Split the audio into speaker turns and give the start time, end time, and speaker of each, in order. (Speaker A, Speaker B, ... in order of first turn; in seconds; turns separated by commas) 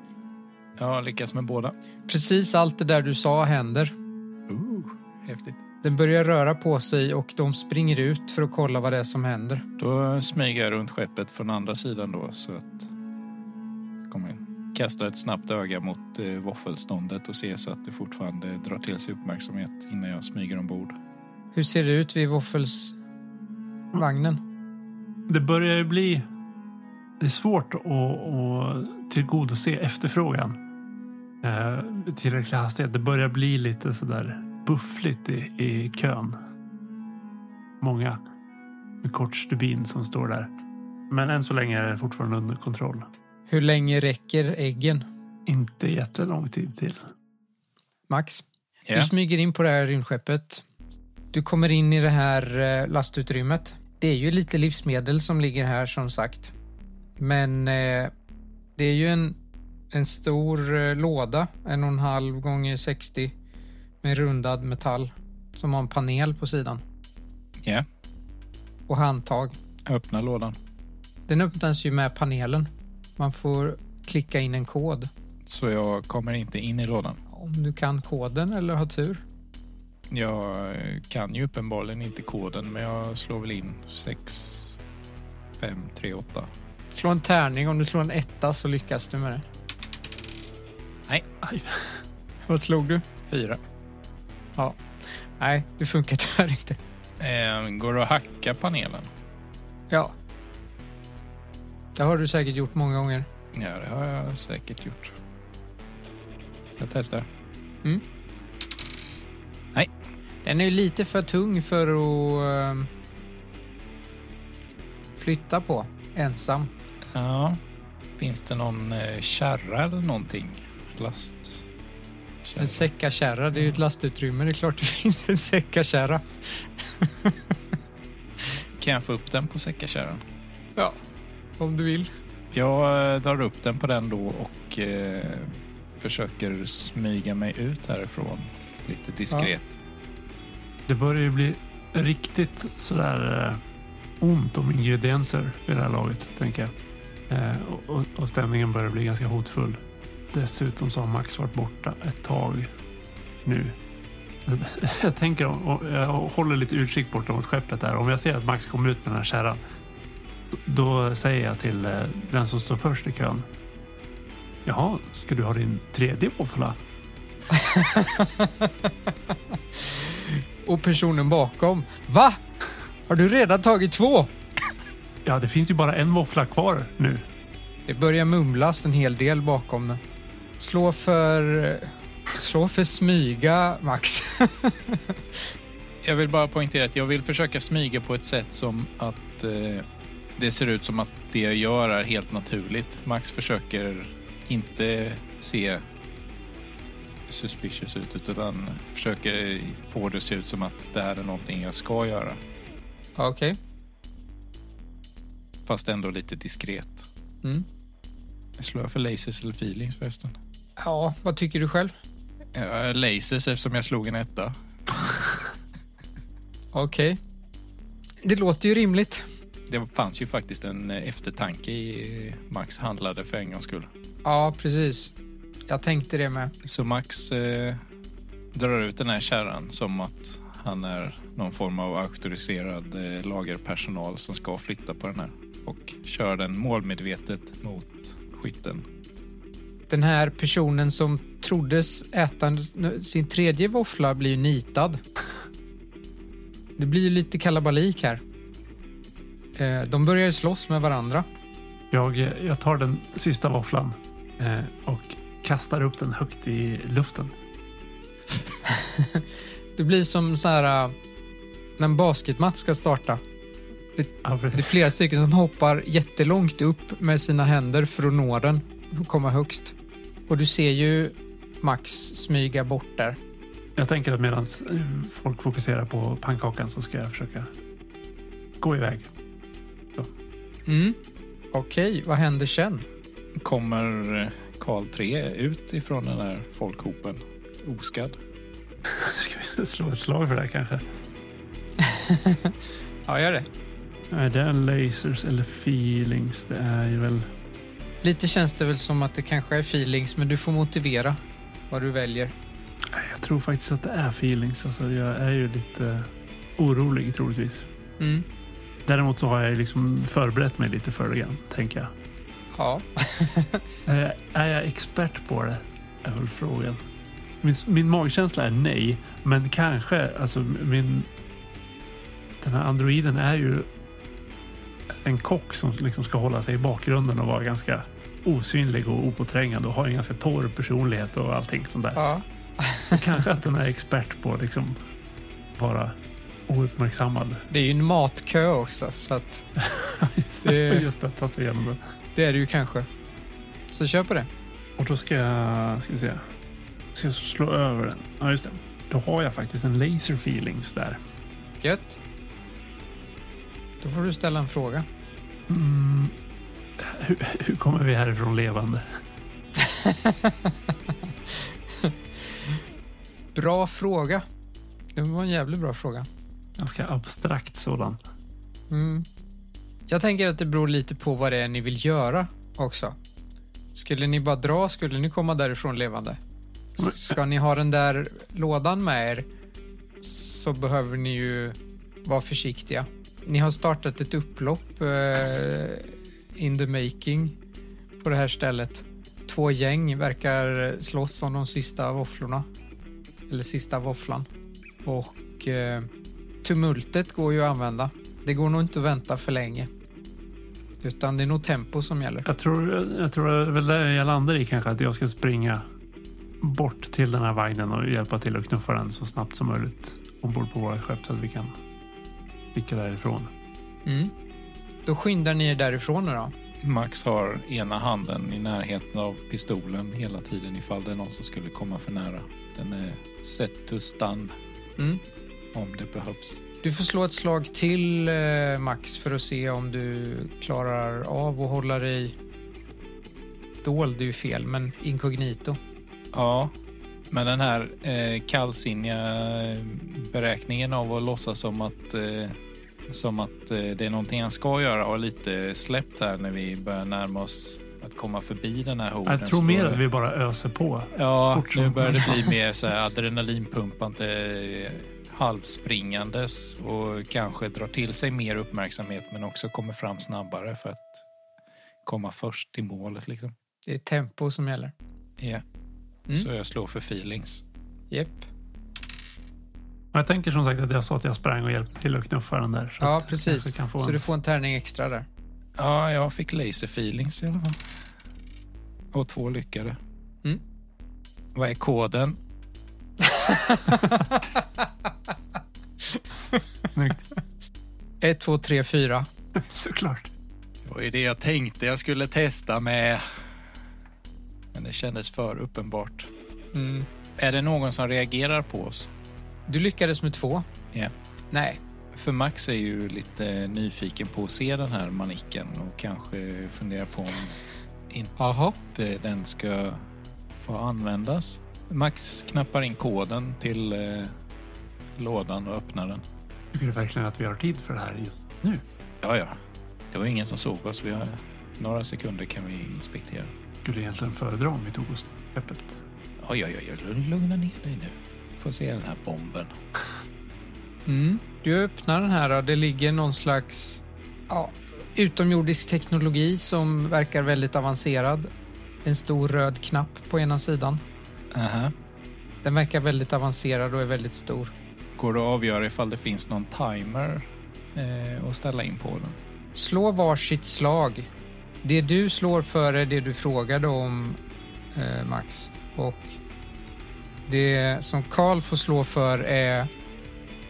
Speaker A: 0.8-1.7, Speaker B: 2.1-3.9, Speaker A: 4.5-5.6, Speaker B: 5.8-9.6, Speaker A: 9.8-12.9, Speaker A: 14.1-20.9, Speaker B: 21.5-23.0, Speaker B: 23.9-24.4, Speaker C: 25.3-26.2, Speaker C: 27.2-30.6, Speaker C: 31.4-36.4, Speaker C: 37.8-38.2, Speaker C: 39.0-40.5, Speaker C: 41.1-43.1, Speaker B: 43.5-45.0, Speaker C: 45.5-47.0, Speaker B: 48.1-50.6, Speaker A: 48.9-49.1, Speaker B: 51.3-56.5, Speaker B: 57.2-58.1, Speaker B: 58.8-59.4, Speaker B: 59.9-63.3, Speaker B: 64.0-66.8, Speaker B: 68.9-69.5, Speaker A: 69.8-70.6, Speaker B: 71.3-75.1, Speaker A: 75.5-77.2, Speaker B: 77.3-79.2, Speaker A: 80.1-84.8, Speaker A: 85.6-86.5, Speaker B: 86.9-89.4, Speaker C: 91.4-91.8, Speaker B: 92.5-93.0, Speaker A: 93.2-93.6, Speaker B: 94.6-96.8, Speaker A: 97.2-99.1, Speaker B: 102.0-103.3, Speaker A: 103.5-105.1, Speaker A: 106.8-107.3, Speaker B: 110.4-112.9, Speaker B: 115.2-116.7, Speaker A: 117.1-117.6, Speaker A: 118.2-121.6, Speaker A: 122.4-122.9, Speaker B: 122.6-127.3, Speaker A: 128.8-130.2, Speaker B: 131.6-132.1, Speaker A: 132.5-139.8, Speaker C: 140.9-143.6, Speaker C: 144.2-146.7, Speaker C: 147.3-149.8, Speaker C: 150.3-152.7, Speaker C: 153.4-153.8, Speaker C: 154.4-159.6, Speaker C: 160.5-163.4, Speaker C: 164.6-166.8, Speaker B: 167.5-168.9, Speaker B: 169.9-172.4, Speaker B: 173.1-174.3, Speaker C: 175.2-177.2, Speaker B: 177.9-180.0, Speaker B: 180.6-185.2, Speaker A: 186.0-189.8, Speaker A: 190.4-195.8, Speaker A: 197.3-202.4, Speaker B: 203.2-203.6, Speaker A: 205.7-207.1, Speaker A: 208.6-210.3, Speaker B: 210.8-211.9, Speaker A: 212.5-215.3, Speaker B: 216.7-217.2, Speaker B: 218.2-219.2, Speaker A: 219.7-223.9, Speaker B: 224.2-225.1, Speaker B: 225.7-226.5, Speaker A: 226.6-227.8, Speaker A: 228.5-238.8, Speaker B: 239.9-245.0, Speaker B: 246.8-248.2, Speaker B: 249.6-251.2, Speaker C: 251.9-257.3, Speaker B: 258.7-259.2, Speaker B: 259.8-260.9, Speaker B: 261.8-263.2, Speaker B: 264.0-269.7, Speaker C: 264.2-264.8, Speaker B: 270.3-273.2, Speaker C: 273.8-277.5, Speaker C: 278.6-279.1, Speaker B: 280.7-281.0, Speaker B: 281.5-282.9, Speaker A: 283.4-288.2, Speaker C: 288.9-290.8, Speaker B: 291.8-292.5, Speaker B: 293.1-293.5, Speaker C: 294.1-297.3, Speaker B: 298.0-302.3, Speaker C: 302.9-307.7, Speaker B: 308.0-308.2, Speaker C: 308.9-311.9, Speaker B: 312.5-313.6, Speaker C: 313.9-316.8, Speaker C: 317.4-321.1, Speaker C: 322.4-323.7, Speaker C: 324.9-332.0, Speaker B: 331.9-333.0, Speaker C: 332.9-334.8, Speaker C: 335.6-335.9, Speaker C: 336.5-337.4, Speaker B: 337.5-339.4, Speaker C: 339.6-341.8, Speaker B: 340.4-340.9, Speaker B: 342.1-342.9, Speaker B: 343.7-344.3, Speaker C: 344.8-346.2, Speaker C: 346.9-351.0, Speaker B: 351.6-352.0, Speaker B: 353.8-354.9, Speaker C: 355.5-356.2, Speaker C: 356.8-358.9, Speaker B: 359.6-360.5, Speaker B: 363.3-364.2, Speaker B: 364.9-366.1, Speaker C: 366.6-368.0, Speaker B: 368.7-369.1, Speaker B: 369.9-372.9, Speaker B: 373.7-376.2, Speaker B: 376.8-379.3, Speaker B: 380.0-387.4, Speaker B: 388.0-392.5, Speaker B: 393.3-394.3, Speaker B: 394.8-395.9, Speaker B: 396.4-399.7, Speaker B: 400.8-402.2, Speaker C: 402.2-405.6, Speaker C: 406.4-411.6, Speaker C: 412.5-413.3, Speaker B: 413.9-414.1, Speaker B: 414.9-416.3, Speaker A: 416.6-424.3, Speaker A: 425.5-426.4, Speaker B: 426.6-432.1, Speaker B: 433.6-435.6, Speaker A: 436.1-436.5, Speaker A: 437.1-442.4, Speaker A: 442.9-449.8, Speaker C: 449.1-452.4, Speaker A: 450.9-461.0, Speaker A: 461.8-463.3, Speaker B: 463.6-464.7, Speaker A: 466.1-467.4, Speaker B: 467.9-468.3, Speaker C: 469.9-474.1, Speaker B: 472.8-475.1, Speaker A: 475.6-477.6, Speaker A: 478.9-479.8, Speaker A: 481.3-482.2, Speaker B: 483.0-484.2, Speaker C: 486.7-487.0, Speaker B: 488.0-489.1, Speaker C: 489.4-490.1, Speaker A: 490.6-493.0, Speaker A: 494.5-496.1, Speaker B: 496.5-496.9, Speaker A: 497.2-498.9, Speaker B: 499.5-500.4, Speaker B: 501.3-501.6, Speaker A: 501.9-507.4, Speaker A: 507.9-508.1, Speaker B: 508.2-508.6, Speaker A: 508.7-509.8, Speaker A: 510.4-514.1, Speaker A: 515.0-516.0, Speaker C: 516.5-518.6, Speaker A: 519.0-519.4, Speaker A: 519.9-523.3, Speaker C: 523.6-525.8, Speaker A: 526.2-529.5, Speaker B: 530.9-538.3, Speaker B: 538.8-540.8, Speaker A: 541.3-541.7, Speaker B: 542.4-544.5, Speaker A: 545.0-549.2, Speaker B: 549.5-551.1, Speaker B: 551.6-554.2, Speaker B: 554.7-556.1, Speaker B: 557.3-559.7